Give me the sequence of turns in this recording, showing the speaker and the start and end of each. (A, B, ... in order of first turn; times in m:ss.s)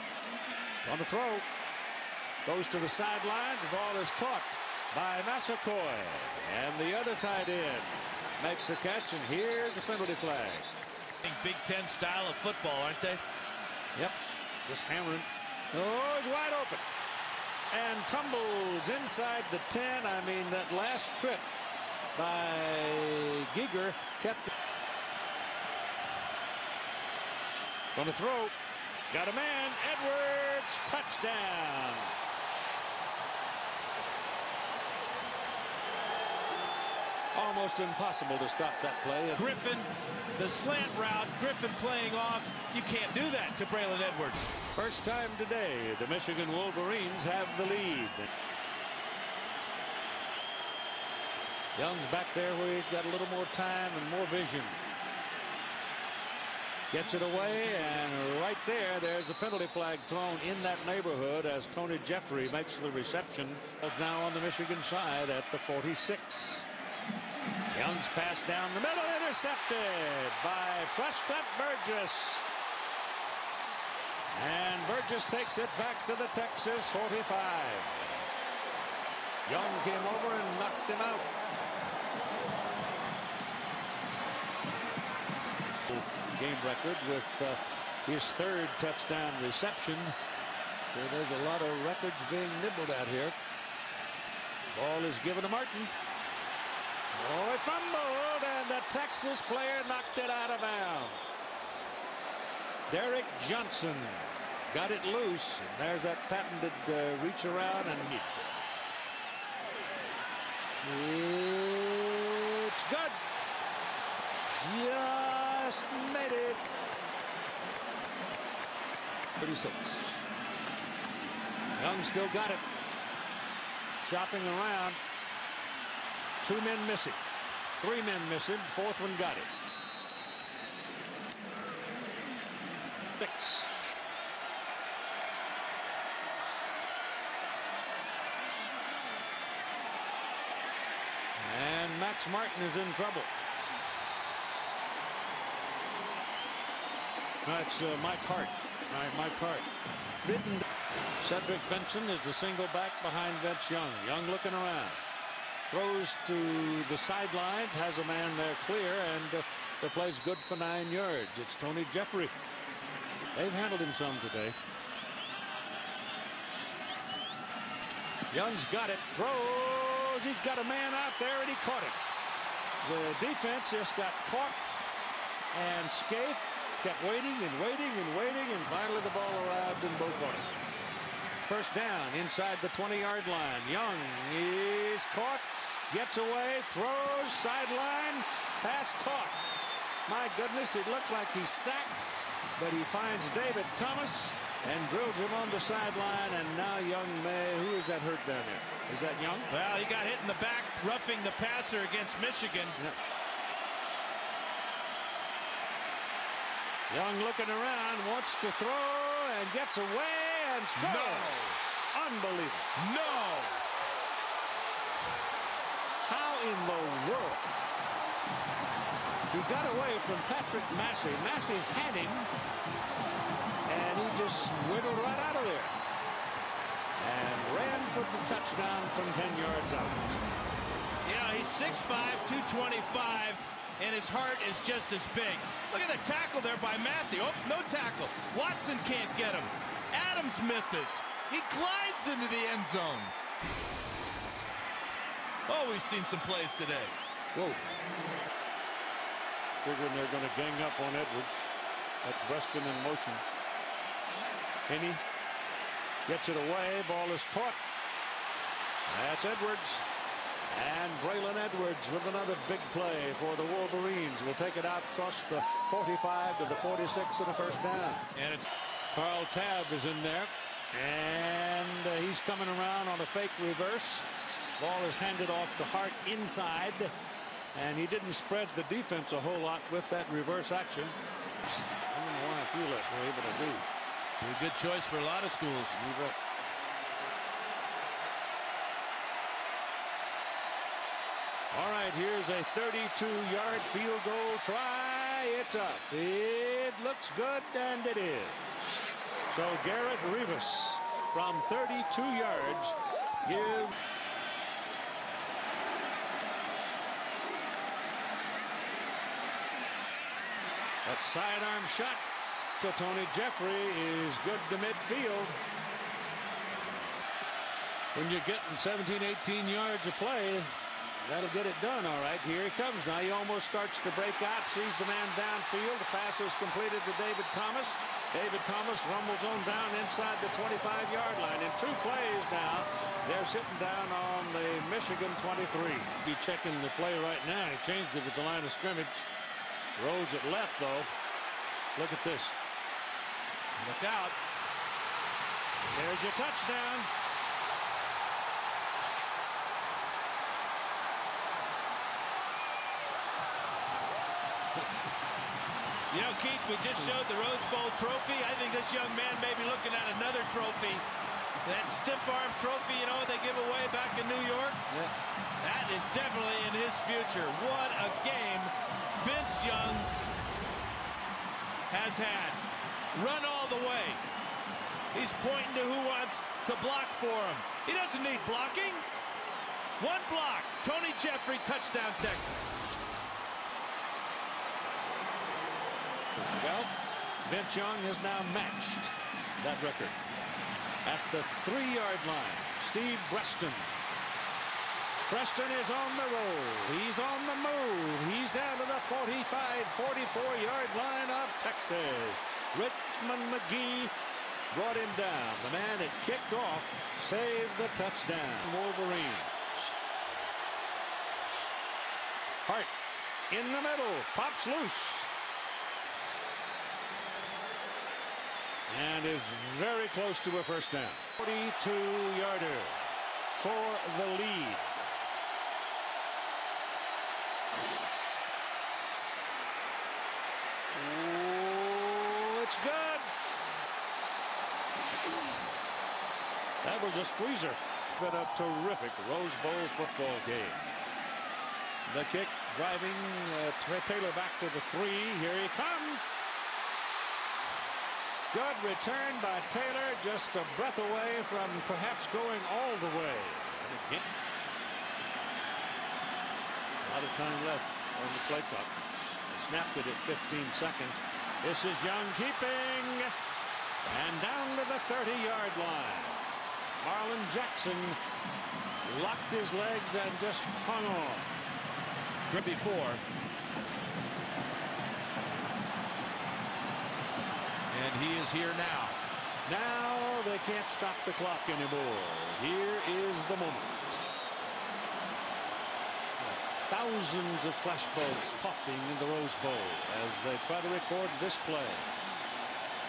0:00.8-0:01.4 A
0:02.4-0:10.6 A
0:11.2-0:13.2 B
0:13.9-0:16.8 A
0:17.7-0:21.5 A
0:22.1-0:24.5 A
0:27.9-0:28.5 A
0:29.1-0:32.1 A
0:37.3-0:39.4 A
0:39.3-0:44.5 B
0:44.7-0:48.3 A
0:51.7-0:54.8 A
0:56.9-1:06.7 A
1:07.7-1:12.4 A
1:14.3-1:18.1 A
1:19.4-1:21.3 A
1:25.9-1:30.1 A
1:30.9-1:33.4 A
1:34.7-1:35.9 A
1:37.1-1:41.2 A
1:42.9-1:48.5 A
1:50.8-1:53.2 A
1:54.5-1:56.6 A
1:59.4-2:00.0 A
2:01.7-2:02.6 A
2:04.0-2:05.0 A
2:06.4-2:07.2 A
2:07.8-2:09.5 A
2:13.2-2:13.7 A
2:21.4-2:23.3 A
2:27.4-2:29.6 A
2:30.2-2:30.6 A
2:31.2-2:35.0 A
2:35.7-2:42.3 A
2:43.3-2:44.6 A
2:48.3-2:52.0 A
2:52.8-2:54.6 A
2:55.5-3:00.5 A
3:01.4-3:09.4 A
3:10.1-3:19.5 A
3:19.5-3:22.8 B
3:26.9-3:32.7 A
3:30.7-3:31.6 B
3:32.8-3:33.6 B
3:36.0-3:37.5 A
3:39.3-3:42.3 A
3:43.6-3:45.7 A
3:47.0-3:50.2 A
3:51.0-4:03.1 B
4:05.5-4:06.9 B
4:07.3-4:07.6 A
4:09.6-4:11.5 A
4:12.0-4:13.2 A
4:14.7-4:15.0 A
4:16.1-4:17.6 A
4:18.9-4:19.8 A
4:20.4-4:28.1 A
4:28.1-4:28.5 B
4:28.9-4:34.1 A
4:34.6-4:36.9 A
4:37.5-4:43.6 A
4:44.2-4:45.8 B
4:45.7-4:46.2 A
4:51.5-5:03.8 A
5:10.8-5:12.0 A
5:12.6-5:15.4 A
5:17.9-5:20.5 A
5:21.0-5:39.1 A
5:39.8-5:40.9 A
5:41.7-5:42.4 A
5:43.6-5:44.1 B
5:45.6-5:46.9 A
5:55.9-6:00.8 B
6:01.4-6:04.6 B
6:05.4-6:09.9 B
6:11.7-6:12.4 B
6:12.9-6:14.0 B
6:14.9-6:18.8 B
6:19.8-6:22.6 B
6:26.2-6:26.7 A
6:27.2-6:30.0 A
6:30.8-6:33.8 A
6:35.1-6:43.9 A
6:44.5-6:49.7 A
6:52.4-6:52.7 A
6:53.3-6:55.1 A
6:58.7-7:02.8 A
7:03.3-7:04.7 A
7:10.7-7:13.1 A
7:16.6-7:20.8 A
7:21.8-7:26.1 A
7:28.3-7:34.1 A
7:36.8-7:38.8 A
7:39.3-7:43.1 A
7:43.9-7:46.2 A
7:46.8-7:48.0 A
7:48.8-7:51.4 A
7:52.3-7:53.0 B
7:57.7-7:59.0 B
7:59.4-8:04.0 A
8:06.6-8:11.9 A